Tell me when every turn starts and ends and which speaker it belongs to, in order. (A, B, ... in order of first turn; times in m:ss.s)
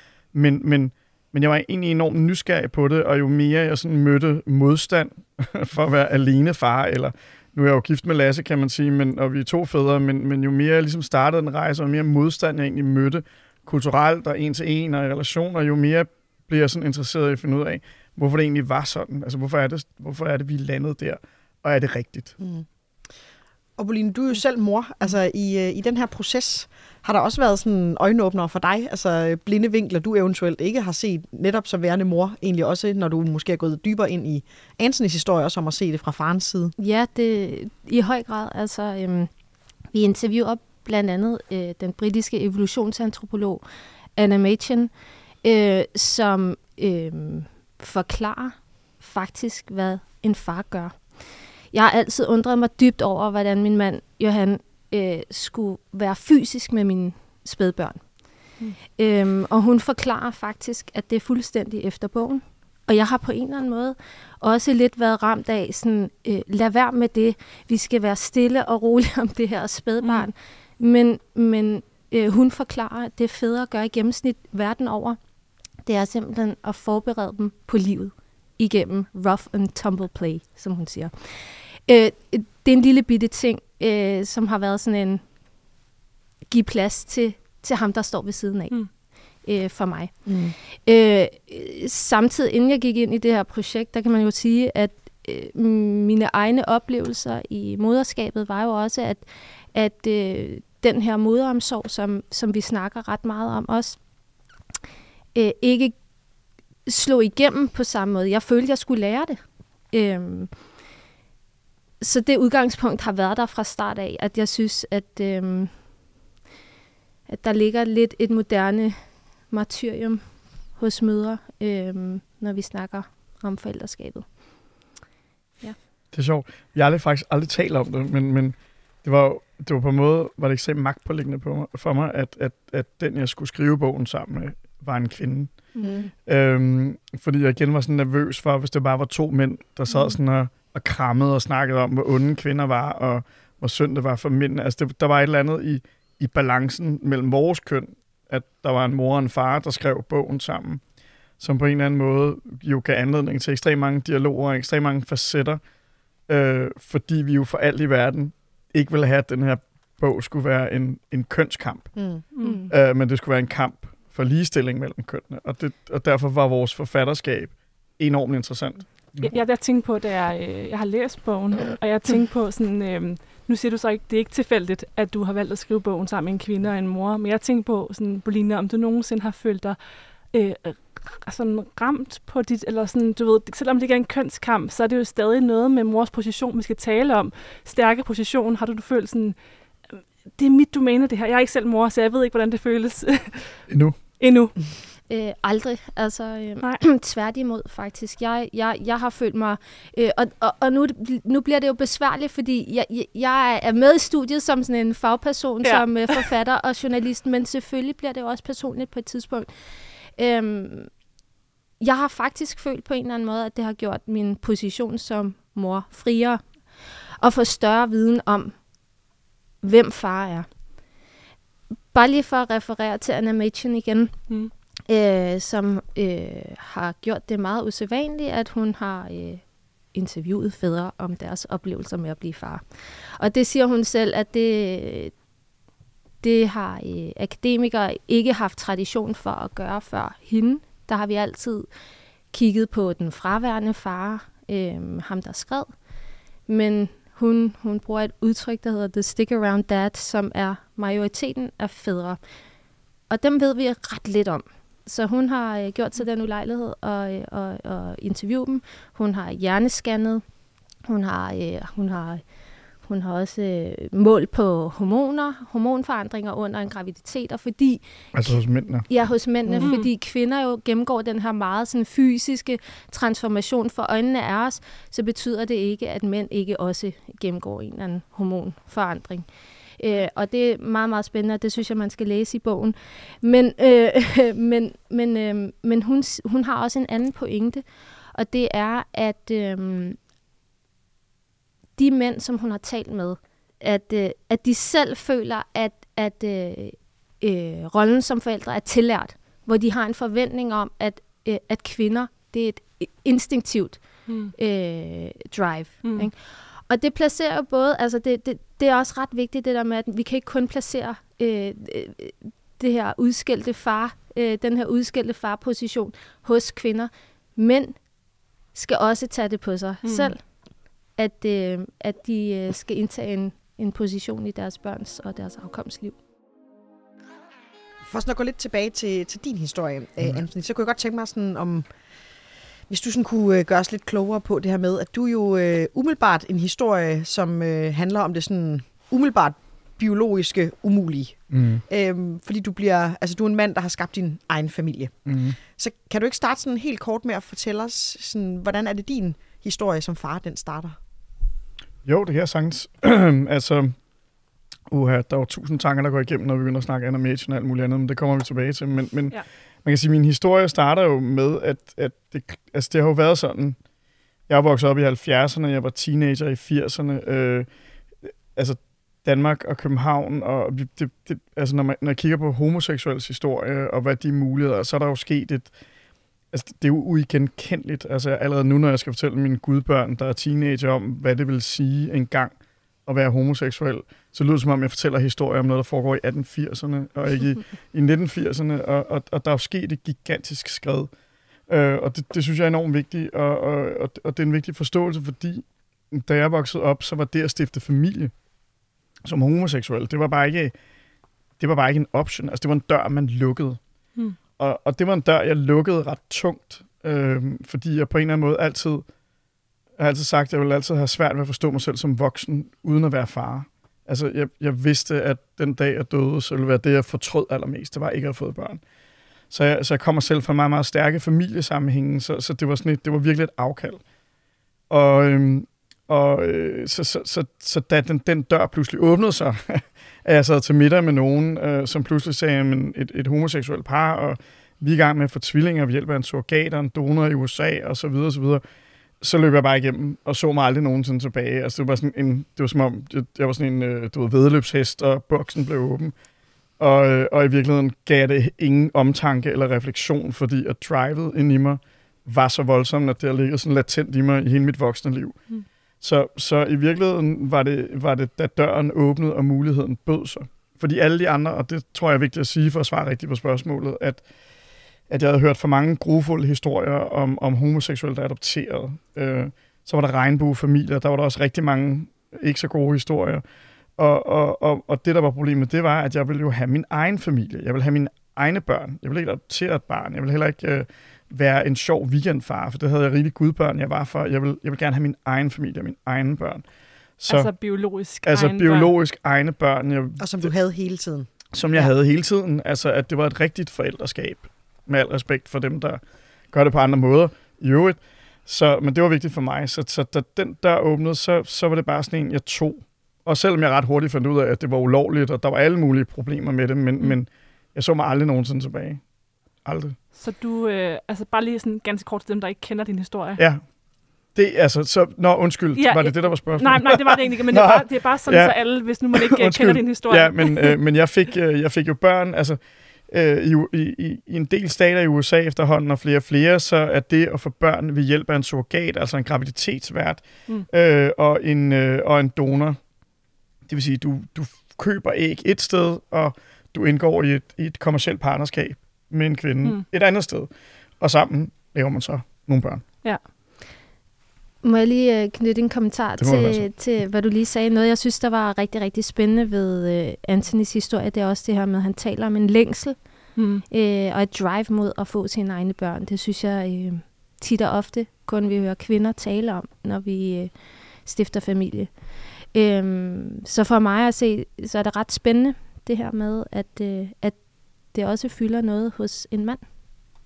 0:00.3-0:22.4 A
0:22.4-0:22.6 B
0:23.8-0:36.7 B
0:36.8-0:39.3 C
0:39.9-0:43.6 C
0:44.2-0:44.9 C
0:45.4-0:51.2 C
0:51.7-0:58.1 C
0:58.9-1:15.2 C
1:15.9-1:25.2 C
1:26.5-1:44.0 C
1:30.3-1:30.6 B
1:45.4-1:46.0 C
1:46.9-1:49.4 C
1:49.9-1:50.5 C
1:52.0-1:55.8 C
1:57.3-2:04.3 C
2:06.1-2:15.5 A
2:15.8-2:16.1 C
2:15.8-2:16.1 B
2:16.2-2:30.8 A
2:31.4-2:35.6 A
2:36.3-2:41.9 A
2:42.0-2:42.2 B
2:42.4-2:42.6 D
2:42.4-2:42.7 C
2:42.7-2:49.4 A
2:49.2-2:59.8 D
3:00.3-3:09.4 D
3:09.9-3:13.6 D
3:13.7-3:14.0 A
3:14.2-3:14.5 D
3:15.1-3:29.5 C
3:25.6-3:26.3 D
3:30.2-3:30.9 C
3:31.8-3:36.4 C
3:37.2-3:38.6 C
3:39.6-3:40.5 C
3:41.9-3:44.3 C
3:44.9-3:55.1 C
3:56.2-4:01.7 C
4:02.3-4:05.7 C
4:06.5-4:12.2 C
4:13.1-4:20.2 C
4:20.8-4:22.2 C
4:22.8-4:28.3 C
4:28.1-4:28.9 A
4:28.9-4:39.3 C
4:29.5-4:29.7 B
4:29.6-4:29.9 D
4:39.8-4:50.0 C
4:51.8-5:17.8 C
5:04.1-5:04.3 D
5:05.8-5:06.1 D
5:18.5-5:20.2 C
5:19.8-5:20.1 D
5:21.0-5:26.0 C
5:27.9-5:31.7 B
5:32.7-5:50.8 B
5:41.3-5:41.6 A
5:45.1-5:45.4 A
5:51.8-5:53.8 A
5:54.7-6:03.6 A
6:04.3-6:07.5 A
6:08.0-6:15.5 A
6:16.3-6:22.3 A
6:22.9-6:30.9 A
6:31.5-6:38.1 A
6:39.0-6:40.5 A
6:41.4-6:43.6 A
6:44.4-6:48.9 A
6:49.8-6:58.6 A
6:59.3-7:03.8 A
7:04.7-7:18.4 A
7:19.0-7:25.9 A
7:26.6-7:35.2 A
7:35.8-7:44.0 A
7:44.9-7:53.2 A
7:53.8-8:06.4 A
8:07.0-8:07.3 A
8:07.1-8:08.7 D
8:08.0-8:10.3 A
8:10.0-8:11.7 B
8:11.3-8:15.8 A
8:16.3-8:28.8 A
8:29.4-8:29.8 A
8:30.0-8:33.2 D
8:33.2-8:33.4 A
8:34.1-8:38.3 A
8:35.6-8:40.6 D
8:38.9-8:52.6 A
8:53.5-9:00.3 A
9:00.8-9:02.6 A
9:04.4-9:29.4 C
9:06.0-9:06.5 A
9:13.2-9:13.4 D